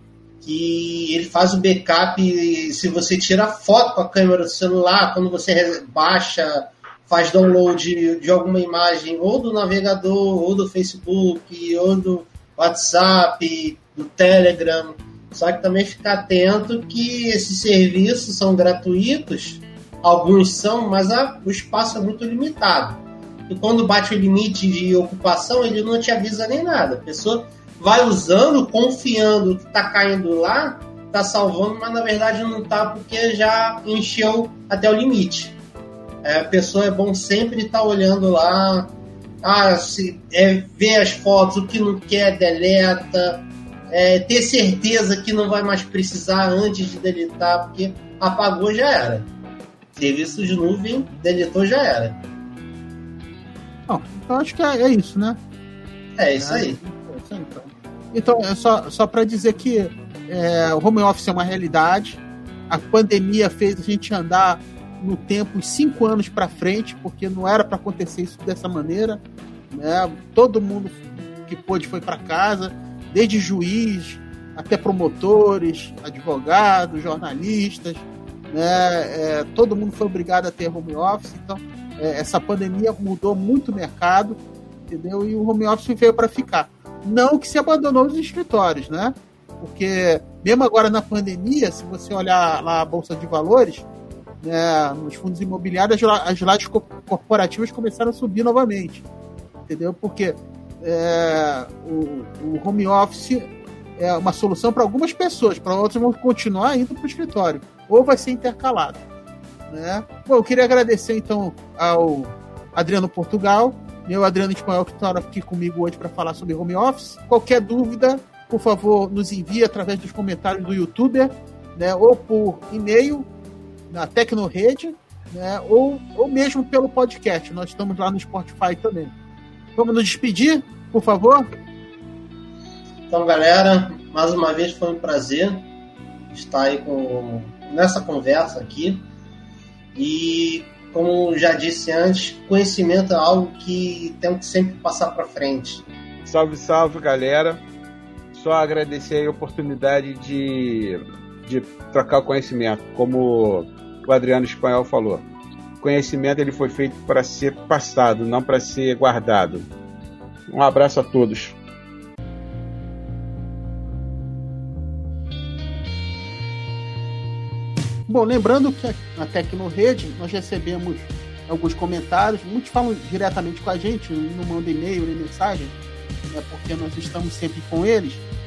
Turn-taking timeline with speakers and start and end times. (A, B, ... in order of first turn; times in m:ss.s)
0:00.4-0:35.6 A
0:36.2-0:49.3 A
0:49.9-0:52.2 A
0:53.9-0:55.4 B
0:56.2-0:56.8 A
0:56.4-1:09.2 B
1:09.7-1:33.9 B
1:34.4-1:39.0 B
1:39.6-1:49.0 B
1:49.7-2:03.3 B
2:03.9-2:09.1 B
2:09.8-2:11.5 B
2:13.1-2:15.6 A
2:16.3-2:19.0 A
2:19.9-2:25.8 A
2:26.2-2:27.6 C
2:28.3-2:35.2 C
2:35.8-2:39.7 C
2:40.5-2:41.6 C
2:48.1-2:55.7 B
2:56.3-2:58.2 B